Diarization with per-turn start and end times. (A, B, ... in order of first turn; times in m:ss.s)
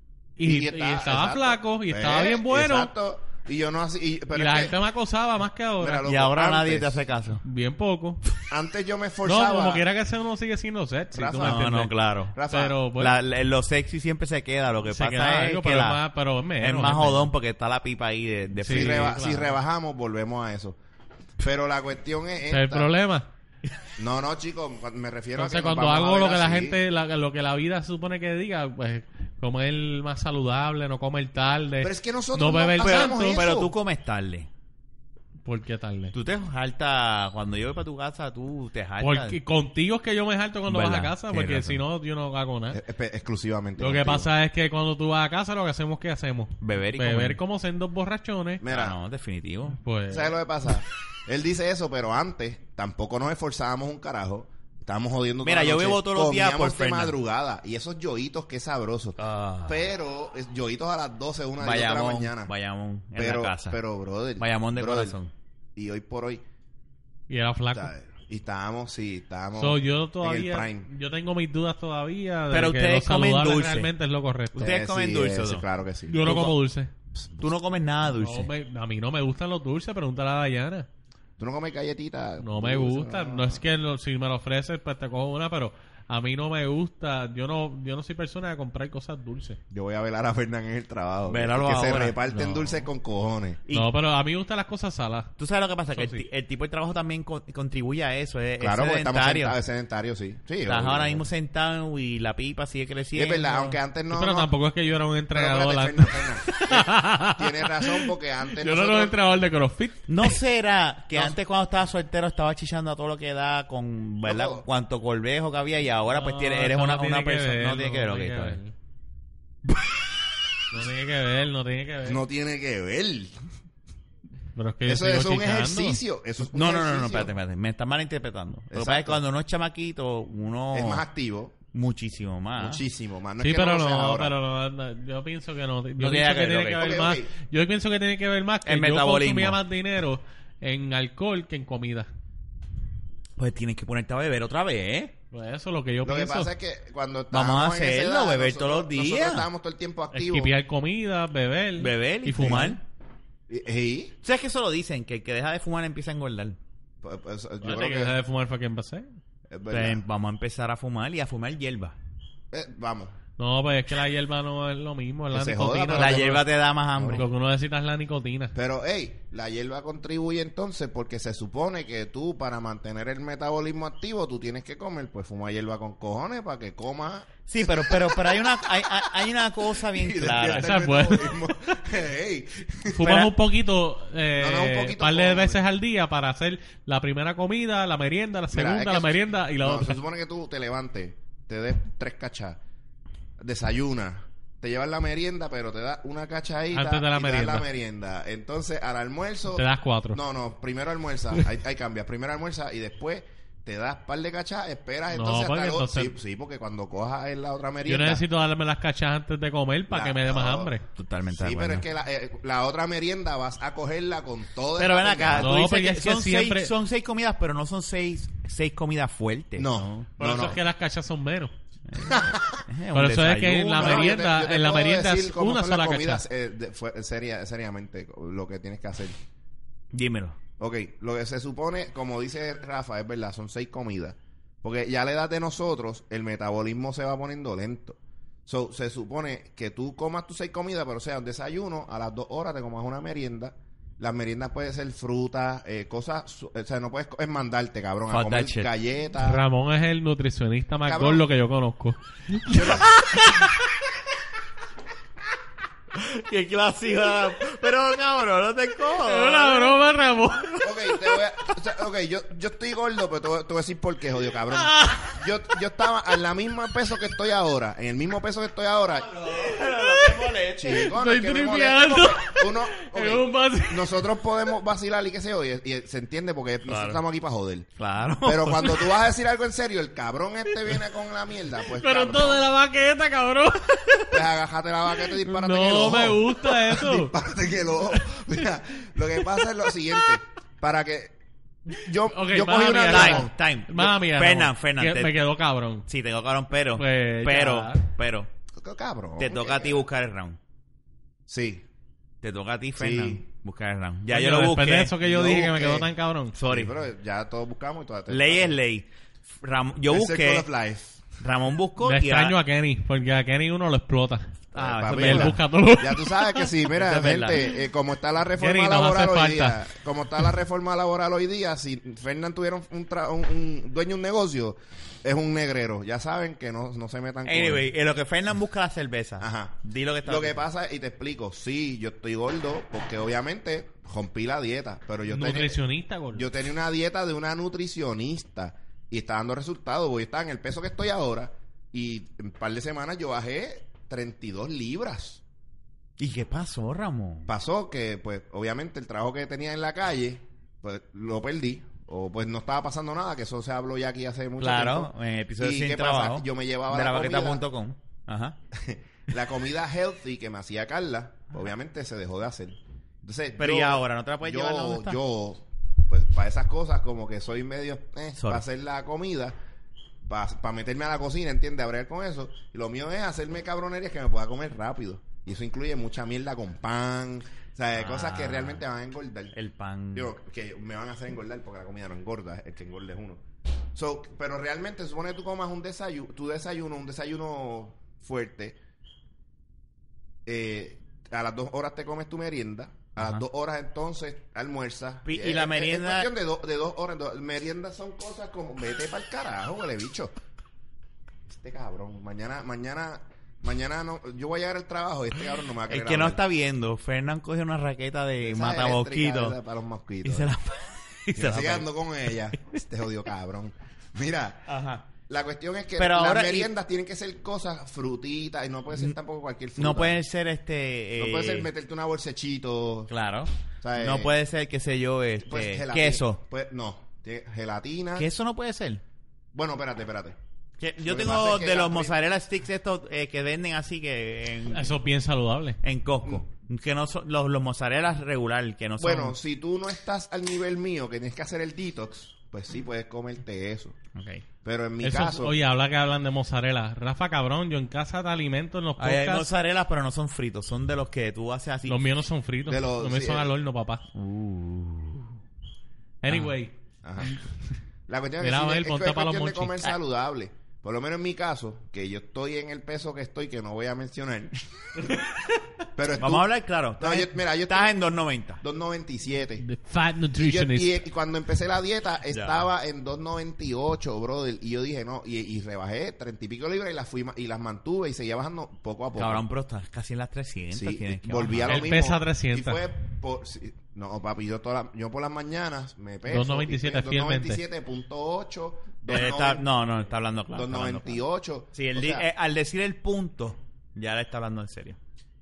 0:00.4-0:02.9 A
0:00.4-0:04.8 B
0:04.3-0:06.1 A
0:05.8-0:07.0 B
0:06.1-0:07.4 C
0:07.4-0:08.2 A
0:08.5-0:09.8 B
0:09.2-0:13.2 A
0:11.1-0:11.7 B
0:11.4-0:12.4 C
0:12.4-0:12.8 B
0:13.0-0:16.0 C
0:14.9-0:17.3 A
0:16.6-0:19.2 C
0:18.6-0:19.6 A
0:18.7-0:20.8 B
0:21.4-0:22.9 B
0:22.5-0:23.3 A
0:24.0-0:26.8 B
0:25.4-0:33.4 A
0:31.8-0:33.7 B
0:32.8-0:34.5 C
0:35.4-0:36.1 A
0:36.1-0:39.4 C
0:39.0-0:42.8 A
0:40.7-0:41.8 C
0:42.7-0:44.3 B
0:43.8-0:48.6 A
0:46.6-0:47.4 C
0:48.6-0:49.0 B
0:48.7-0:49.8 C
0:49.7-0:50.3 A
0:50.1-1:02.5 B
0:55.4-0:57.2 C
0:59.2-0:59.9 C
1:01.6-1:03.8 C
1:03.2-1:05.2 B
1:04.4-1:05.3 C
1:05.8-1:06.4 B
1:07.3-1:07.9 A
1:07.7-1:10.9 B
1:09.6-1:14.7 A
1:12.5-1:13.9 C
1:14.6-1:15.6 C
1:14.6-1:16.5 B
1:16.1-1:16.9 A
1:16.2-1:16.5 C
1:17.4-1:18.5 C
1:18.1-1:20.9 A
1:21.4-1:23.6 B
1:22.4-1:29.6 A
1:29.7-1:33.6 B
1:31.3-1:32.2 C
1:32.3-1:32.8 A
1:33.7-1:35.3 A
1:35.4-1:39.6 C
1:36.0-1:36.2 A
1:38.6-1:41.3 B
1:40.6-1:43.8 C
1:43.2-1:44.5 B
1:44.1-1:50.4 A
1:45.3-1:49.2 B
1:50.1-1:58.6 C
1:54.2-1:54.7 B
1:56.1-1:58.7 A
2:00.7-2:02.2 A
2:02.0-2:03.3 B
2:04.6-2:06.0 A
2:04.8-2:07.3 B
2:06.5-2:11.0 C
2:08.7-2:09.2 B
2:10.7-2:11.6 B
2:11.7-2:12.8 C
2:12.6-2:14.4 B
2:13.4-2:22.1 A
2:16.0-2:17.0 C
2:16.7-2:17.3 B
2:18.6-2:19.6 C
2:23.4-2:25.1 C
2:25.3-2:26.5 A
2:26.0-2:30.5 B
2:27.3-2:29.5 C
2:30.1-2:32.8 A
2:31.8-2:32.8 C
2:32.4-2:32.8 B
2:33.5-2:34.2 B
2:34.2-2:36.6 C
2:37.0-2:38.2 B
2:37.6-2:39.1 A
2:39.5-2:40.0 B
2:39.7-2:42.0 C
2:42.5-2:43.2 B
2:43.4-2:46.5 A
2:45.3-2:46.3 B
2:45.9-2:47.3 C
2:47.0-2:47.2 B
2:47.1-2:48.5 A
2:48.6-3:03.3 B
2:57.5-3:00.7 C
3:00.5-3:01.8 A
3:02.9-3:10.0 A
3:04.4-3:05.6 B
3:08.5-3:12.6 B
3:13.4-3:28.2 B
3:16.7-3:17.7 A
3:19.5-3:20.2 A
3:25.1-3:26.2 A
3:27.9-3:30.8 A
3:29.9-3:30.7 B
3:31.0-3:31.8 C
3:31.4-3:35.6 B
3:34.8-3:40.1 C
3:35.4-3:36.7 A
3:39.6-3:40.6 B
3:40.2-3:41.5 A
3:41.9-3:44.2 C
3:42.1-3:42.6 B
3:42.9-3:46.2 A
3:43.8-3:49.2 B
3:49.9-3:50.4 C
3:50.6-4:09.4 B
4:08.1-4:08.7 C
4:09.2-4:13.4 A
4:10.8-4:11.2 B
4:12.5-4:12.9 B
4:15.9-4:19.8 C
4:19.0-4:20.7 A
4:20.4-4:20.6 C
4:20.6-4:29.2 B
4:24.5-4:25.2 A
4:29.1-4:30.9 C
4:29.7-4:30.2 A
4:30.6-4:37.7 B
4:30.7-4:34.0 A
4:36.7-4:37.0 C
4:37.8-4:38.9 C
4:38.2-4:42.5 B
4:41.7-4:44.2 A
4:44.1-4:51.1 B
4:45.0-4:47.1 A
4:51.7-4:53.3 B
4:52.1-4:55.9 A
4:52.9-4:55.2 C
4:55.9-4:58.3 C
4:56.8-4:57.8 A
4:58.6-4:59.8 B
4:59.2-5:00.4 C
5:01.3-5:01.6 B
5:02.2-5:05.0 C
5:02.8-5:03.2 B
5:04.1-5:06.4 A
5:05.0-5:05.9 B
5:06.4-5:06.8 C
5:06.4-5:08.6 B
5:08.1-5:08.9 C
5:09.4-5:10.5 C
5:09.9-5:11.0 B
5:11.2-5:12.4 C
5:11.8-5:14.4 A
5:14.5-5:15.4 C
5:14.6-5:27.7 B
5:14.9-5:16.5 A
5:16.7-5:17.5 C
5:18.4-5:19.6 A
5:27.2-5:30.5 C
5:29.2-5:35.6 B
5:35.1-5:36.3 A
5:36.1-5:45.2 B
5:46.0-5:47.3 C
5:47.3-5:57.4 B
5:54.4-5:58.4 C
5:58.5-6:09.4 B
6:03.4-6:05.0 C
6:08.2-6:08.4 C
6:10.1-6:19.4 B
6:17.8-6:18.6 C
6:19.3-6:20.1 C
6:20.0-6:23.2 B
6:23.8-6:28.6 B
6:30.3-6:40.1 B
6:35.0-6:36.1 C
6:41.3-6:46.2 B
6:45.7-6:49.4 C
6:48.2-6:50.3 B
6:50.0-6:52.4 C
6:51.2-6:54.5 B
6:54.5-6:54.9 C
6:55.1-7:00.0 B
6:55.8-6:56.5 C
6:59.6-7:01.5 C
7:01.0-7:02.9 B
7:02.9-7:06.2 C
7:03.6-7:04.1 B
7:05.2-7:08.1 B
7:08.0-7:08.8 C
7:09.3-7:10.2 B
7:10.6-7:14.8 C
7:10.8-7:11.9 B
7:14.5-7:15.6 A
7:15.6-7:19.2 C
7:18.8-7:23.8 B
7:24.0-7:24.2 C
7:24.4-7:25.4 B
7:24.8-7:29.3 A
7:28.8-7:31.8 C
7:31.7-7:33.8 A
7:32.5-7:33.3 B
7:34.0-7:35.1 C
7:36.0-7:37.2 A
7:36.1-7:36.3 C
7:36.8-7:37.2 B
7:37.9-7:44.9 B
7:38.2-7:39.8 A
7:45.8-7:46.3 B
7:46.0-7:48.4 C
7:46.8-7:47.8 B
7:48.4-7:49.4 B
7:49.4-7:50.8 A
7:50.2-7:59.3 B
7:52.1-7:52.4 C
7:59.0-8:01.7 C
8:00.5-8:09.5 B
8:01.5-8:02.6 A
8:06.1-8:07.4 A
8:08.9-8:11.0 C
8:10.3-8:12.1 B
8:11.5-8:14.8 C